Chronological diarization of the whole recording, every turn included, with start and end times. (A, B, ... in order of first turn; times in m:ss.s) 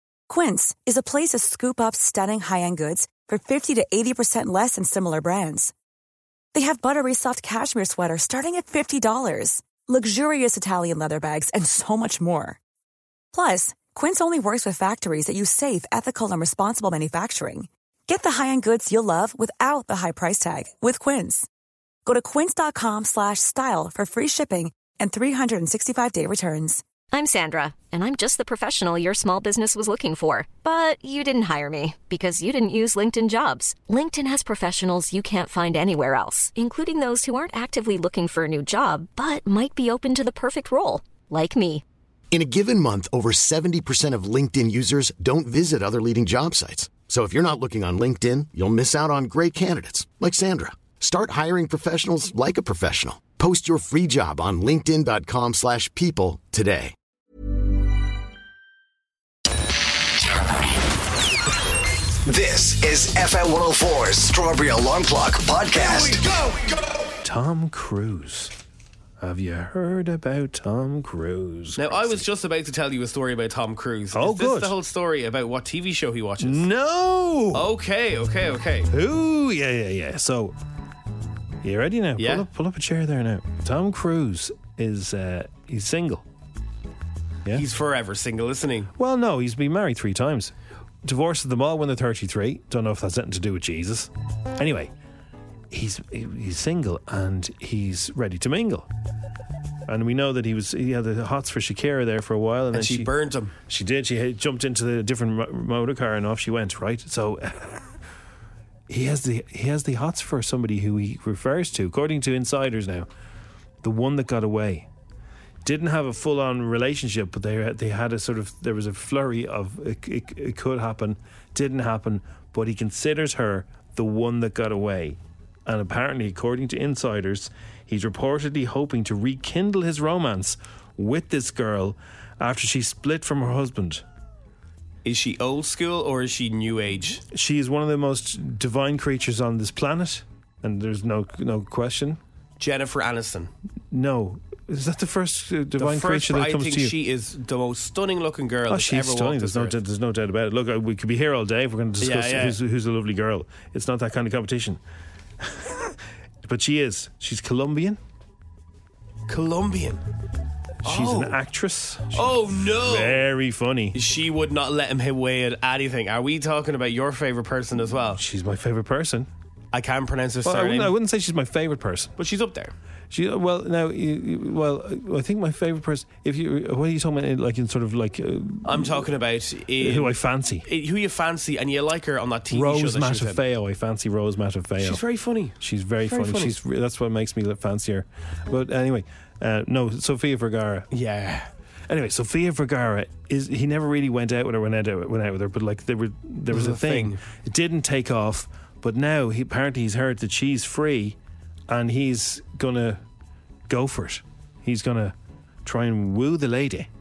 0:00.3-0:05.7 A
0:06.5-0:12.6 A
0:13.3-0:21.5 A
0:22.1-0:26.8 A
0:27.1-0:41.8 B
0:42.3-0:56.9 C
1:02.2-1:06.6 D
1:07.2-1:08.5 E
1:09.2-1:12.2 E
1:11.8-1:16.6 F
1:14.1-1:14.7 E
1:16.4-1:17.7 E
1:17.5-1:18.9 F
1:18.9-1:20.5 E
1:21.6-1:26.2 E
1:22.2-1:22.5 F
1:27.5-1:28.9 F
1:29.0-1:30.5 E
1:31.0-1:34.9 E
1:35.7-1:38.9 E
1:39.9-1:43.1 E
1:42.7-1:43.5 F
1:43.7-1:47.9 E
1:48.9-1:53.1 E
1:53.8-1:54.9 E
1:55.6-2:14.0 E
2:15.0-2:17.2 F
2:17.3-2:22.2 E
2:22.6-2:23.5 F
2:23.9-2:26.9 E
2:25.8-2:29.8 F
2:28.7-2:34.8 E
2:32.0-2:32.6 F
2:35.4-2:35.9 E
2:36.4-2:38.0 E
2:39.3-2:40.0 F
2:40.8-2:41.4 F
2:40.8-2:44.0 E
2:42.1-2:43.2 F
2:43.9-2:48.2 F
2:48.1-2:49.3 E
2:49.7-2:50.9 F
2:50.4-2:52.1 E
2:52.2-2:52.7 F
2:53.1-2:59.1 E
2:58.6-3:03.4 F
2:59.8-3:00.7 E
3:02.5-3:05.0 E
3:04.8-3:06.5 F
3:05.6-3:10.9 E
3:10.9-3:11.5 F
3:11.9-3:21.2 E
3:16.5-3:17.2 F
3:21.7-3:23.0 E
3:23.7-3:26.9 E